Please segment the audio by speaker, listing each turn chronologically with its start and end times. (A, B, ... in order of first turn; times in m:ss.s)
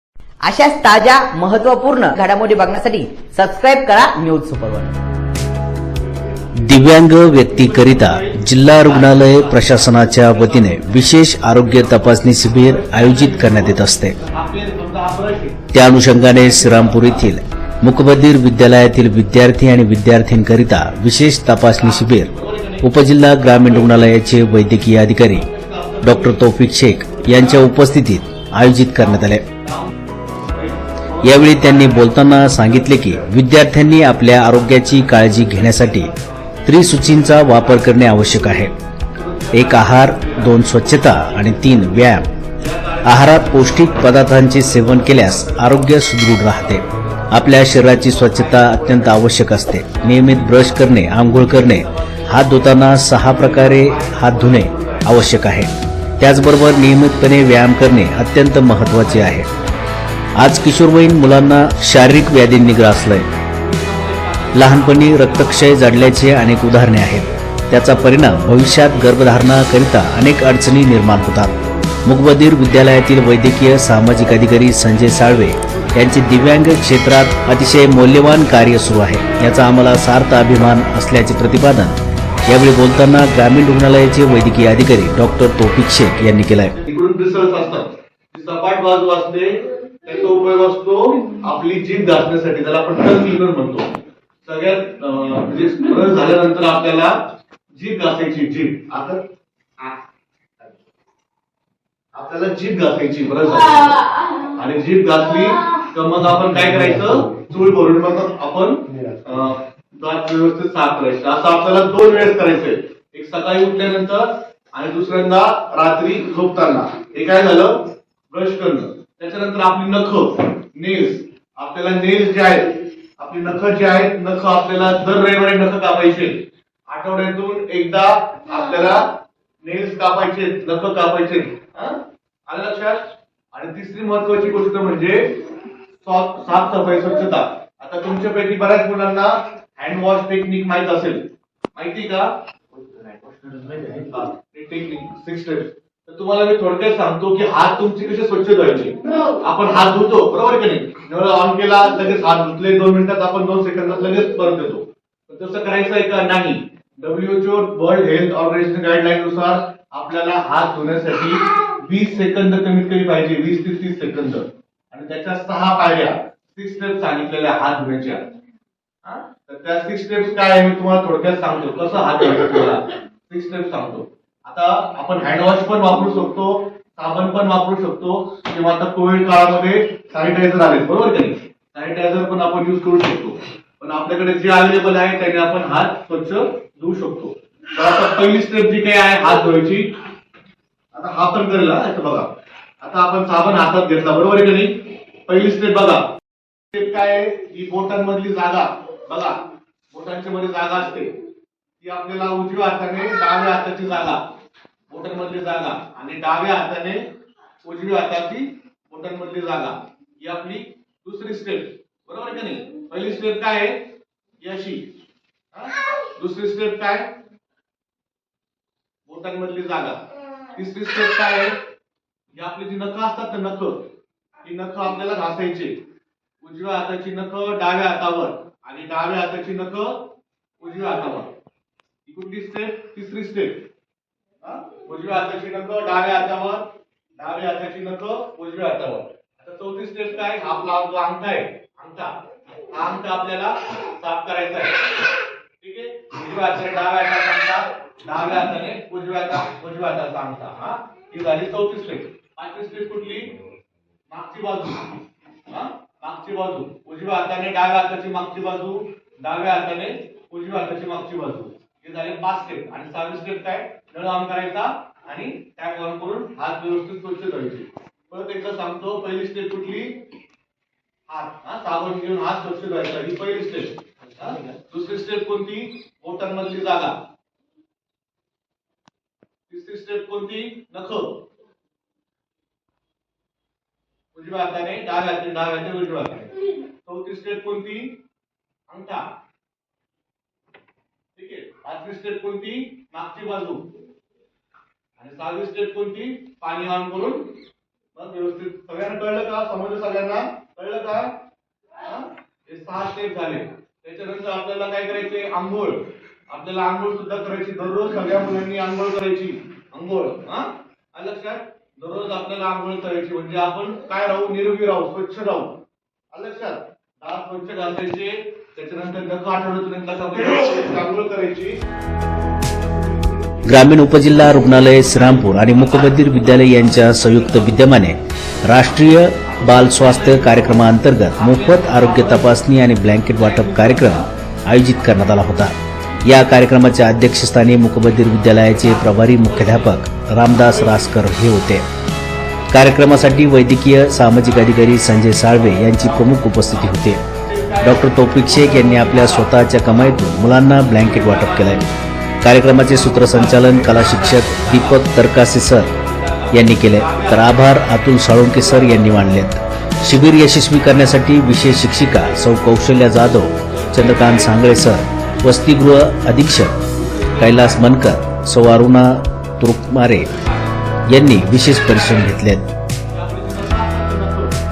0:00.4-0:05.0 A
0:06.6-0:14.2 B
0:07.3-0:17.3 C
0:15.7-0:25.5 B
0:21.8-0:22.9 C
0:23.4-0:24.1 C
0:25.3-0:27.9 C
0:26.0-0:29.4 B
0:29.0-0:55.3 C
0:31.2-0:36.1 B
0:36.7-0:38.7 B
0:39.5-0:42.3 B
0:43.0-0:59.5 B
0:56.8-0:57.5 C
0:58.8-0:59.7 C
1:00.4-1:03.3 B
1:03.4-1:12.1 C
1:04.5-1:11.5 B
1:12.0-1:26.7 B
1:15.4-1:19.7 C
1:26.2-1:33.9 C
1:34.4-1:37.1 C
1:37.7-1:39.2 C
1:42.1-1:57.8 C
1:58.3-2:09.0 C
2:09.6-2:15.4 C
2:16.0-2:48.2 C
2:49.0-3:09.9 C
3:10.9-3:12.3 C
3:12.8-3:14.7 C
3:15.3-3:16.0 C
3:16.7-3:19.4 C
3:19.9-3:21.1 C
3:21.8-3:24.2 C
3:24.9-3:27.0 C
3:27.6-3:33.8 C
3:34.4-3:34.9 C
3:35.5-3:37.1 C
3:39.1-3:41.6 C
3:42.3-3:43.8 C
3:44.4-3:45.8 C
3:46.4-3:50.1 C
3:50.6-3:51.3 C
3:52.1-3:53.6 C
3:54.4-4:02.1 C
4:02.7-4:04.9 C
4:05.6-4:13.3 C
4:14.1-4:30.0 C
4:31.1-4:37.0 C
4:39.5-4:41.2 C
4:44.1-4:47.9 C
4:48.7-4:49.0 C
4:51.2-4:53.7 C
4:55.0-4:57.2 C
4:57.9-5:01.1 C
5:01.8-5:15.5 C
5:16.1-5:21.6 C
5:23.5-5:41.6 B
5:24.4-5:27.6 C
5:28.7-5:32.4 C
5:33.1-5:34.1 C
5:34.8-5:35.2 C
5:35.9-5:36.3 C
5:38.4-5:39.8 C
5:40.3-5:41.0 C
5:42.5-5:47.0 B
5:42.6-5:43.3 C
5:45.4-5:51.7 C
5:47.6-5:51.6 B
5:52.2-5:55.7 B
5:52.4-5:59.2 C
5:56.3-6:06.6 B
5:59.8-6:00.2 C
6:01.9-6:05.8 C
6:06.7-6:07.9 C
6:07.2-6:10.1 B
6:10.0-6:10.8 C
6:10.9-6:12.5 B
6:11.7-6:12.0 C
6:12.9-6:14.4 C